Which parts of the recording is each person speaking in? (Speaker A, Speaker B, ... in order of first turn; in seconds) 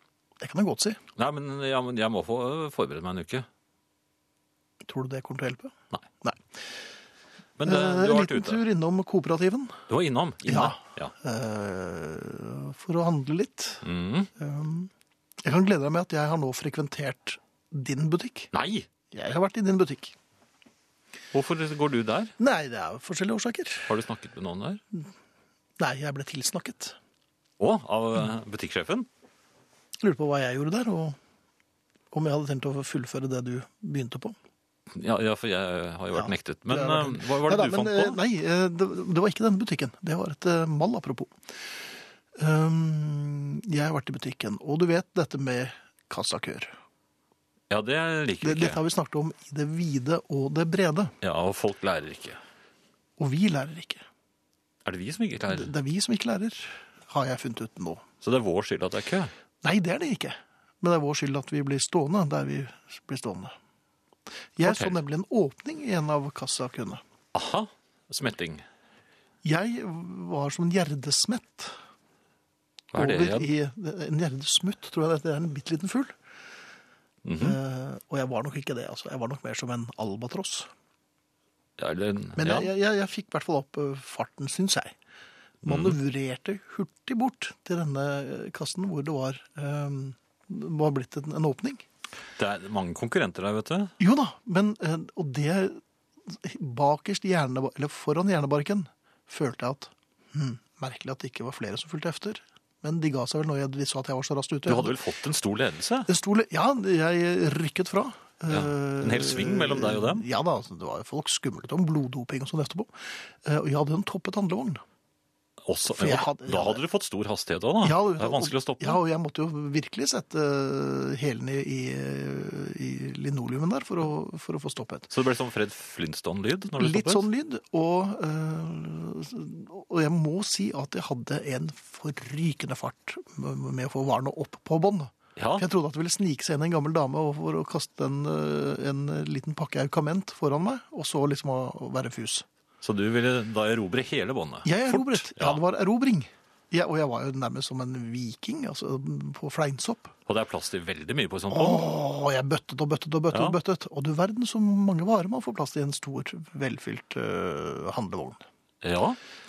Speaker A: 0.4-1.0, 4.8-6.6, 7.6-9.8, 10.4-13.8, 14.3-14.9, 15.4-18.5, 19.1-20.1, 22.4-23.9, 25.8-26.9, 30.0-31.2, 32.1-34.4, 36.1-41.3, 42.4-46.7, 48.4-51.1, 53.2-54.0, 55.5-58.0, 59.6-63.5, 64.6-67.0, 69.4-71.8, 72.9-76.1, 77.4-80.7, 82.4-84.9, 85.6-91.8, 94.0-105.0, 106.1-114.8, 115.9-116.8, 117.8-125.1, 126.7-142.4, 144.6-150.1, 151.5-158.4
Speaker B: 1.1-3.5, 7.6-8.6, 9.9-11.1, 13.8-14.3, 18.5-18.9, 21.3-22.3, 23.9-24.8, 27.6-29.1, 34.9-38.2, 47.7-48.8, 51.2-52.4, 54.8-55.7, 58.2-59.3, 64.6-65.0, 67.3-68.7, 72.9-73.5, 77.2-77.6, 81.8-82.7, 85.6-86.0, 92.4-93.9, 104.7-106.1, 108.5-110.2, 115.6-119.0, 125.1-127.3, 135.3-135.7, 142.8-145.6, 150.2-151.8, 153.3-153.6, 158.8-159.2